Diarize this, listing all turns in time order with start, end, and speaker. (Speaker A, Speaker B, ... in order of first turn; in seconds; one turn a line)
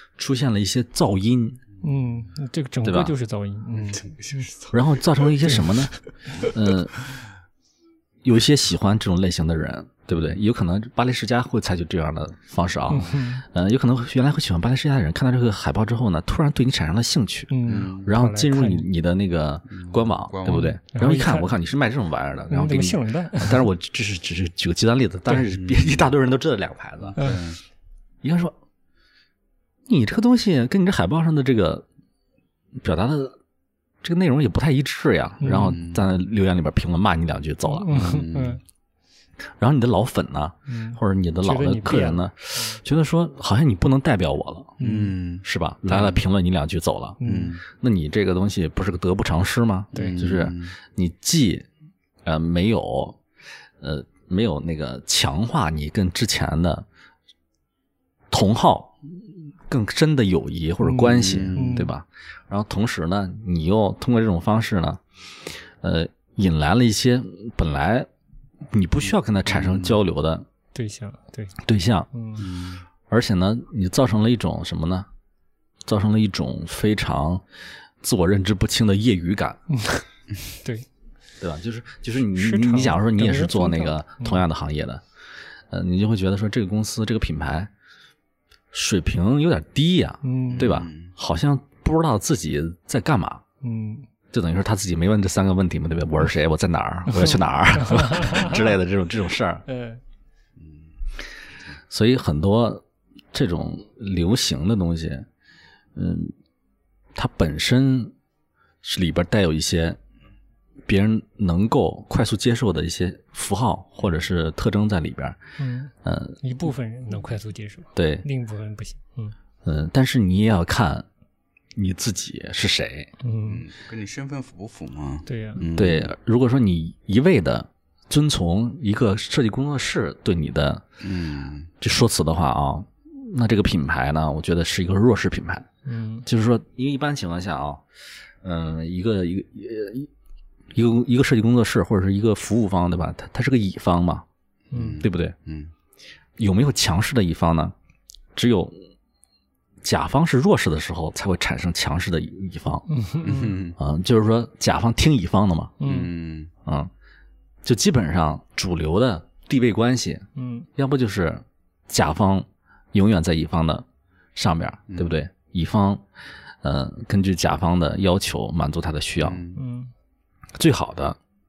Speaker A: 0.2-1.6
Speaker B: 1.8-4.4
Speaker A: 2.8-3.1
Speaker C: 3.9-5.5
Speaker A: 4.7-6.9
Speaker A: 8.2-27.3
Speaker B: 12.9-13.4
Speaker B: 17.5-18.9
Speaker C: 17.6-18.1
Speaker C: 19.7-20.8
Speaker B: 20.4-21.5
Speaker B: 22.5-23.6
Speaker C: 25.5-26.1
Speaker C: 27.1-27.6
Speaker A: 28.2-28.5
Speaker A: 29.9-31.8
Speaker A: 32.8-33.4
Speaker A: 34.0-38.2
Speaker B: 35.4-35.8
Speaker C: 35.5-36.0
Speaker B: 37.6-38.6
Speaker C: 37.9-38.6
Speaker A: 39.6-44.8
Speaker B: 40.7-42.8
Speaker B: 44.8-45.1
Speaker C: 44.8-46.1
Speaker A: 45.4-51.7
Speaker B: 47.2-47.5
Speaker C: 47.2-47.6
Speaker B: 49.9-50.2
Speaker C: 49.9-50.8
Speaker A: 52.2-53.2
Speaker A: 53.8-56.9
Speaker A: 58.3-68.1
Speaker B: 60.8-61.9
Speaker C: 61.0-61.8
Speaker A: 68.7-70.5
Speaker C: 69.5-70.0
Speaker B: 70.7-71.5
Speaker A: 71.6-72.1
Speaker B: 72.1-72.5
Speaker C: 72.4-72.8
Speaker A: 73.1-75.1
Speaker A: 75.8-77.4
Speaker A: 78.0-79.6
Speaker B: 79.7-80.0
Speaker B: 80.6-80.9
Speaker A: 81.4-85.0
Speaker B: 82.3-84.4
Speaker A: 85.7-87.7
Speaker A: 88.7-93.4
Speaker B: 90.2-90.7
Speaker C: 90.5-91.1
Speaker B: 93.6-94.1
Speaker A: 94.3-99.6
Speaker B: 97.1-98.7
Speaker B: 99.7-100.0
Speaker C: 100.6-100.9
Speaker A: 101.9-105.3
Speaker A: 105.9-106.3
Speaker A: 107.1-108.1
Speaker A: 108.8-110.0
Speaker A: 110.8-115.4
Speaker B: 115.6-119.3
Speaker A: 116.0-116.4
Speaker A: 118.0-118.2
Speaker A: 119.6-121.0
Speaker A: 121.7-123.1
Speaker B: 123.2-123.6
Speaker C: 123.5-126.1
Speaker B: 125.2-125.6
Speaker A: 125.7-130.8
Speaker C: 131.0-131.7
Speaker A: 131.8-135.7
Speaker B: 135.8-136.3
Speaker A: 136.2-137.8
Speaker A: 138.4-140.1
Speaker A: 140.7-144.2
Speaker C: 144.7-145.7
Speaker B: 144.7-145.0
Speaker A: 145.0-145.3
Speaker A: 146.4-147.7
Speaker A: 148.3-148.8
Speaker A: 149.8-152.9
Speaker B: 152.9-153.6
Speaker C: 153.2-153.8
Speaker A: 153.8-155.8
Speaker B: 155.8-156.1
Speaker C: 155.8-156.5
Speaker A: 156.7-156.9
Speaker A: 157.6-166.0
Speaker B: 160.3-160.7
Speaker A: 166.6-169.4
Speaker C: 169.2-169.6
Speaker B: 169.5-169.9
Speaker A: 170.6-171.2